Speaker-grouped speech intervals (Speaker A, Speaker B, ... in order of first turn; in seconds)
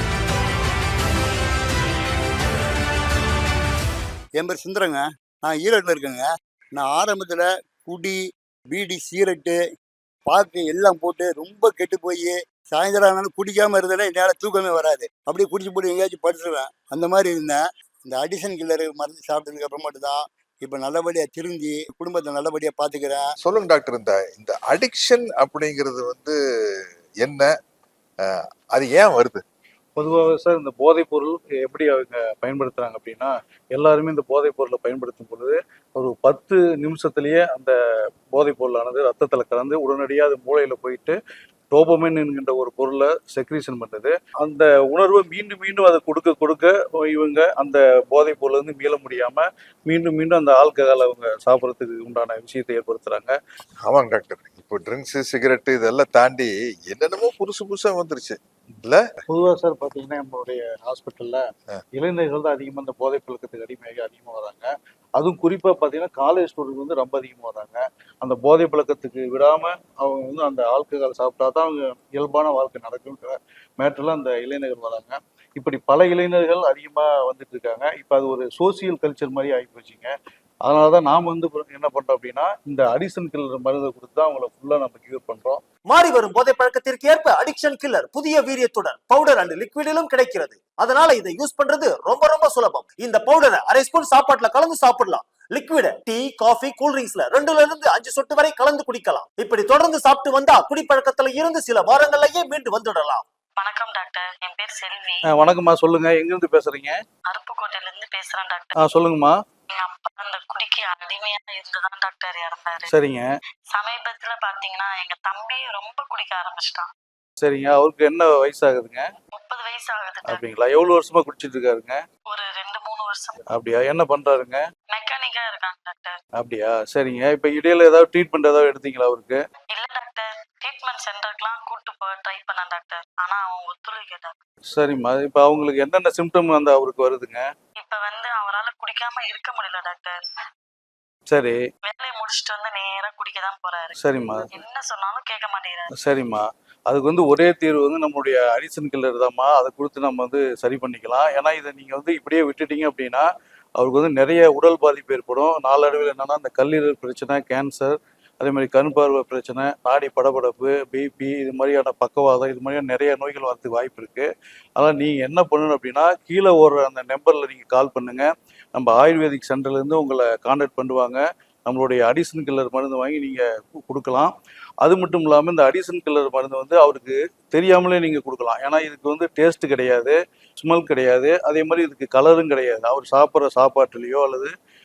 Speaker A: 4.4-9.6, 10.3-23.2
Speaker B: 23.4-26.3, 27.2-27.5, 28.2-29.4, 53.9-59.0
Speaker C: 30.0-37.7, 38.3-41.2, 41.7-53.3, 59.3-80.1, 80.6-85.6, 105.3-107.0, 108.8-109.3, 112.9-113.3, 117.4-119.0, 120.3-122.0, 123.5-124.6, 126.4-129.4, 134.7-137.4, 141.3-141.6, 144.0-144.5, 146.0-153.3, 153.8-174.3, 174.8-184.5
Speaker D: 85.9-103.2
Speaker E: 103.6-105.2, 107.3-108.7, 109.8-112.9, 113.7-116.9, 119.3-120.4, 122.3-123.4, 124.9-126.2, 129.7-134.4, 137.8-140.2, 141.8-143.9, 144.5-145.9